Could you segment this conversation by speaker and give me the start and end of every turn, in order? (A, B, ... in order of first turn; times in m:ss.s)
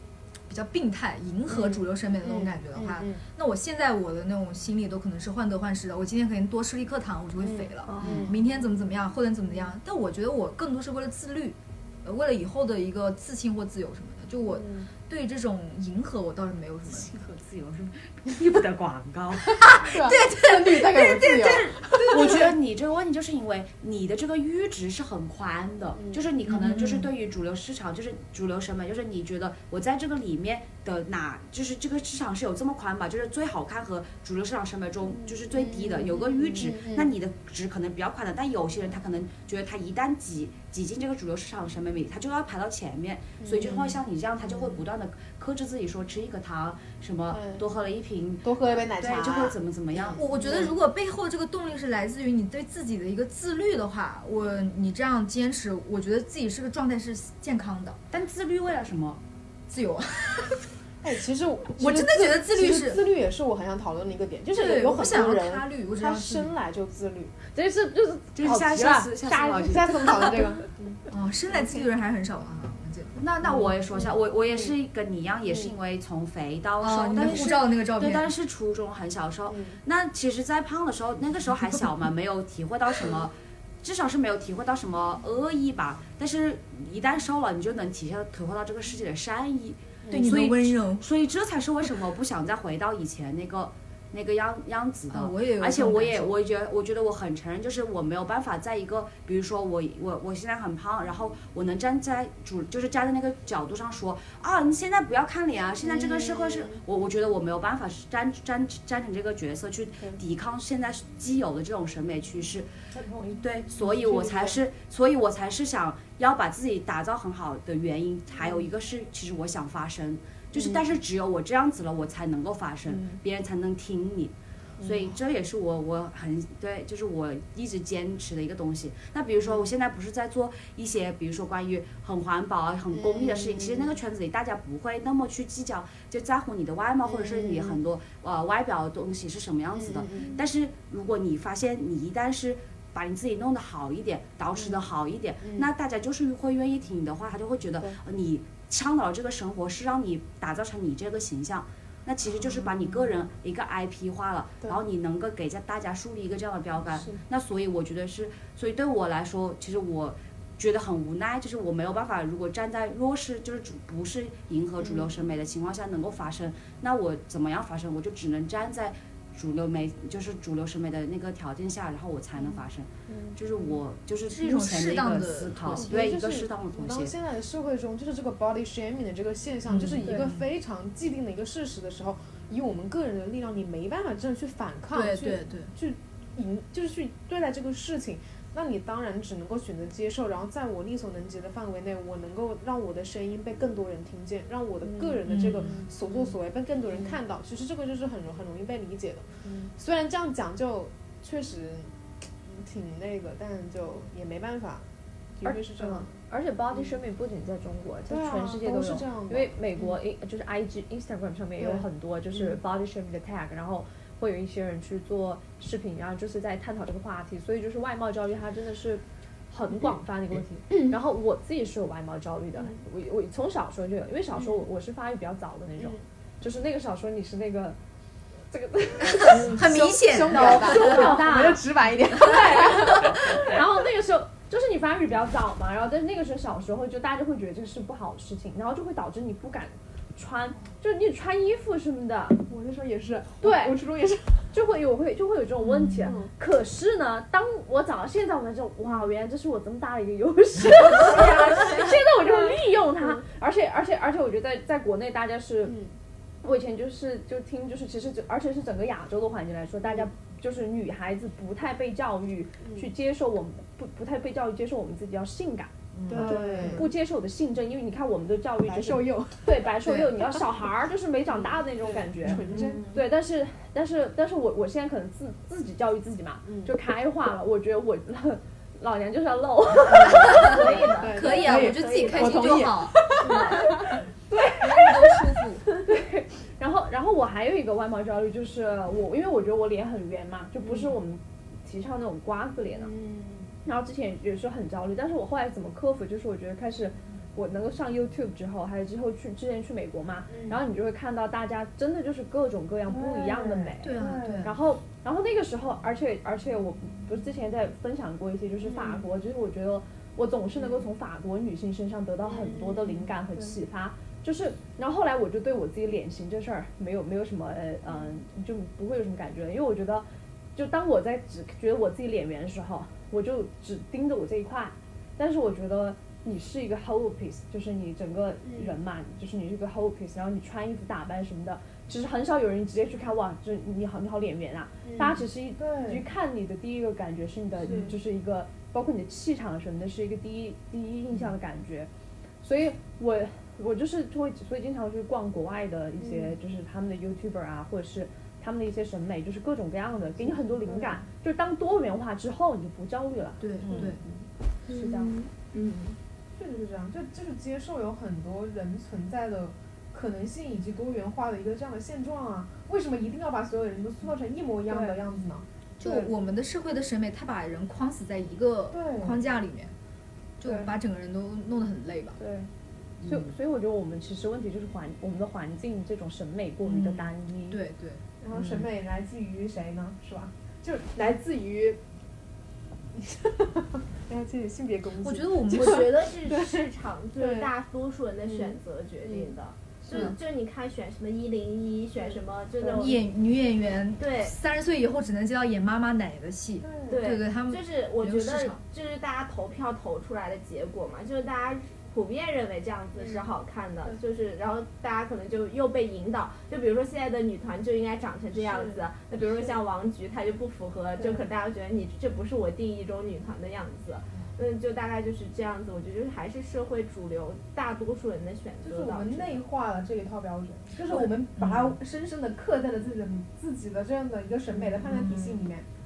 0:00.5-0:17.1 A
0:01.5-0:03.2 B
0:07.4-0:08.3 B
0:07.9-0:08.4 C
0:08.0-0:08.3 D
0:14.5-0:14.9 C
0:16.9-0:19.7 D
0:19.6-0:22.5 A
0:19.8-0:21.8 B
0:21.8-0:50.7 D
0:26.5-0:27.1 A
0:35.5-0:37.1 C
0:35.6-0:35.8 B
0:43.4-0:43.9 B
0:47.3-0:47.6 B
0:48.4-0:50.7 B
0:50.2-0:58.0 A
0:58.1-0:59.2 D
0:59.7-1:00.6 A
1:01.0-1:07.3 B
1:01.8-1:03.0 A
1:04.5-1:06.6 A
1:07.5-1:10.7 C
1:08.4-1:10.0 D
1:09.6-1:11.0 B
1:11.1-1:13.2 A
1:13.2-1:52.7 D
1:16.8-1:18.3 A
1:19.5-1:19.8 B
1:30.1-1:31.1 A
1:35.1-1:36.4 A
1:45.9-1:46.8 B
1:52.9-1:53.4 C
1:53.4-2:57.1 D
1:54.0-1:54.4 C
1:54.0-1:54.6 B
2:02.9-2:03.2 C
2:12.9-2:13.9 B
2:17.0-2:17.8 B
2:19.7-2:20.4 B
2:24.6-2:24.8 B
2:25.4-2:25.7 B
2:32.5-2:32.8 B
2:36.9-2:37.2 B
2:44.8-2:45.1 B
2:53.1-2:53.4 C
2:54.3-2:55.9 A
2:55.8-3:26.2 B
2:59.7-3:00.4 A
3:00.0-3:00.3 C
3:04.9-3:05.8 A
3:14.8-3:16.3 C
3:15.3-3:15.8 A
3:16.9-3:17.2 C
3:19.4-3:19.7 C
3:25.4-3:47.8 C
3:26.7-3:27.0 B
3:28.1-3:30.0 B
3:31.6-3:32.6 B
3:48.5-4:02.5 C
3:49.2-3:51.3 A
3:49.3-3:53.5 B
4:02.5-4:04.5 B
4:03.4-4:03.8 C
4:04.5-4:15.8 C
4:05.6-4:06.2 A
4:06.0-4:06.3 B
4:15.6-4:15.9 B
4:16.4-4:41.0 C
4:19.8-4:20.1 B
4:22.6-4:22.9 B
4:26.0-4:26.4 D
4:26.1-4:26.9 B
4:28.6-4:30.5 B
4:31.3-4:32.9 B
4:32.3-4:32.6 A
4:36.4-4:36.7 B
4:39.9-4:43.8 B
4:40.3-4:43.8 A
4:40.5-4:42.7 E
4:43.2-4:52.9 C
4:44.6-4:45.7 A
4:50.6-4:50.9 B
4:52.8-4:53.6 B
4:53.6-5:41.9 C
5:00.3-5:00.6 B
5:02.9-5:04.4 B
5:03.8-5:04.6 A
5:08.6-5:09.0 B
5:10.6-5:10.8 B
5:12.2-5:13.5 B
5:28.4-5:28.8 B
5:34.8-5:36.1 B
5:37.6-5:38.0 B
5:42.4-5:55.2 C
5:46.0-5:46.3 B
5:50.2-5:51.0 B
5:53.4-5:54.0 A
5:53.7-5:53.9 B
5:54.7-5:56.0 E
5:56.4-6:05.5 B
6:04.7-6:05.0 C
6:05.8-6:09.7 A
6:05.8-6:06.1 C
6:08.7-6:09.2 B
6:10.4-6:12.2 A
6:10.4-6:10.7 C
6:12.2-6:12.5 C
6:13.0-6:17.6 C
6:16.6-6:18.6 A
6:18.2-6:21.8 B
6:23.0-6:27.5 B
6:25.0-6:25.9 A
6:25.5-6:33.0 E
6:32.7-6:38.6 A
6:34.0-6:34.4 E
6:36.6-6:37.0 B
6:36.9-6:59.4 E
6:48.4-6:49.5 B
6:51.0-6:51.2 B
6:58.6-7:05.7 B
7:00.9-7:01.8 A
7:04.9-7:05.4 A